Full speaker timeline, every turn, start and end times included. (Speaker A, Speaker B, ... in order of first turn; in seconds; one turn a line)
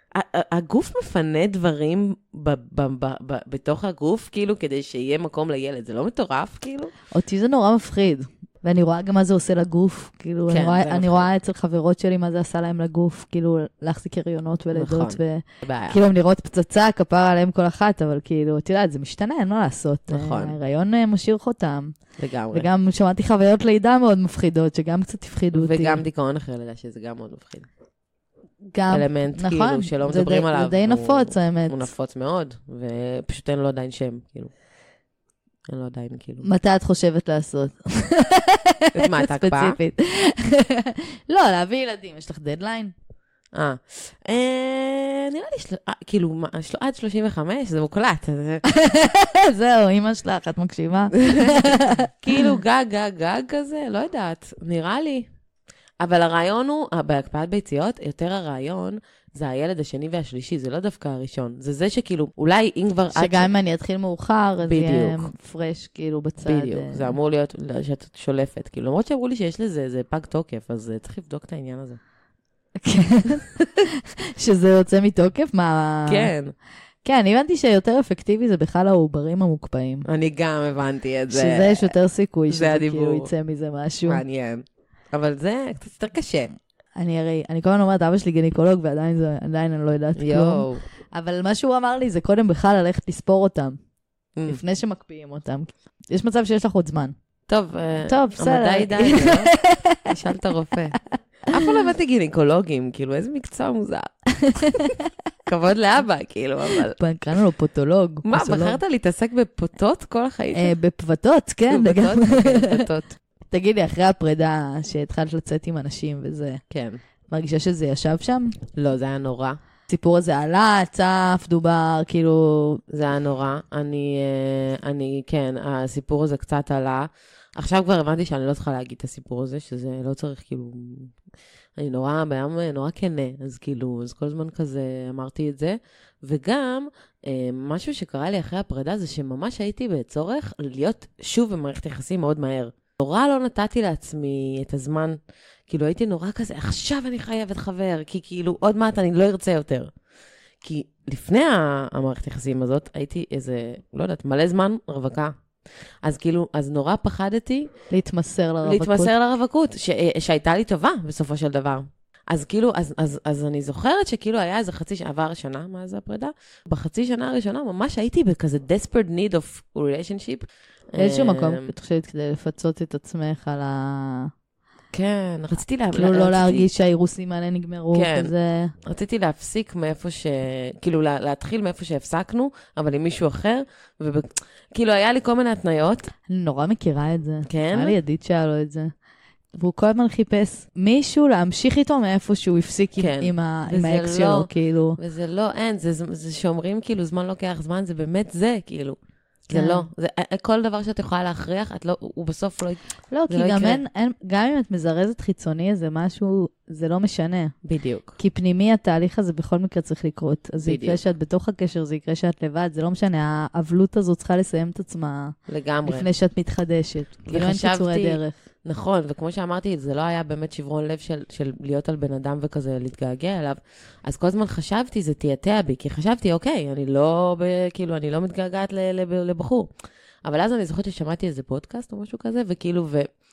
Speaker A: 0.1-6.9
Speaker B: 7.1-21.9
Speaker A: 10.5-11.3
Speaker A: 14.7-16.0
Speaker A: 20.1-20.6
Speaker A: 22.2-22.7
Speaker B: 22.5-26.0
Speaker A: 25.5-27.7
Speaker B: 28.7-31.9
Speaker A: 28.9-34.5
Speaker A: 35.7-36.5
Speaker B: 36.4-42.9
Speaker A: 38.9-39.8
Speaker A: 43.5-48.6
Speaker B: 48.7-52.1
Speaker A: 51.1-55.3
Speaker A: 56.0-63.5
Speaker B: 63.1-67.1
Speaker A: 64.7-65.3
Speaker A: 66.4-72.0
Speaker B: 72.8-76.3
Speaker A: 76.1-76.5
Speaker B: 77.0-80.1
Speaker A: 80.1-81.9
Speaker B: 81.3-84.2
Speaker A: 82.5-83.3
Speaker A: 84.1-86.5
Speaker B: 87.0-93.8
Speaker A: 90.2-90.8
Speaker A: 94.4-94.6
Speaker B: 94.5-97.1
Speaker A: 97.5-99.5
Speaker B: 98.1-100.0
Speaker A: 100.0-101.0
Speaker A: 101.5-104.1
Speaker B: 104.4-104.9
Speaker A: 105.5-107.0
Speaker B: 107.0-108.8
Speaker A: 108.2-110.8
Speaker B: 110.5-112.8
Speaker A: 111.7-113.2
Speaker B: 113.5-116.6
Speaker A: 116.7-117.0
Speaker B: 117.3-118.6
Speaker A: 118.7-119.6
Speaker B: 119.9-122.8
Speaker A: 122.9-131.1
Speaker A: 131.8-145.2
Speaker A: 145.7-149.9
Speaker A: 150.6-155.3
Speaker A: 156.0-157.7
Speaker B: 157.9-159.1
Speaker A: 158.6-171.7
Speaker B: 171.0-174.3
Speaker A: 174.9-176.7
Speaker B: 175.9-178.7
Speaker A: 177.9-178.3
Speaker A: 178.8-186.1
Speaker B: 186.3-188.9
Speaker A: 187.5-188.0
Speaker B: 189.6-195.0
Speaker A: 193.0-199.0
Speaker A: 199.5-203.8
Speaker B: 199.5-199.9
Speaker B: 203.1-207.6
Speaker A: 207.6-208.2
Speaker B: 208.2-218.3
Speaker A: 210.6-211.0
Speaker A: 215.5-216.1
Speaker A: 217.3-229.7
Speaker A: 230.2-233.1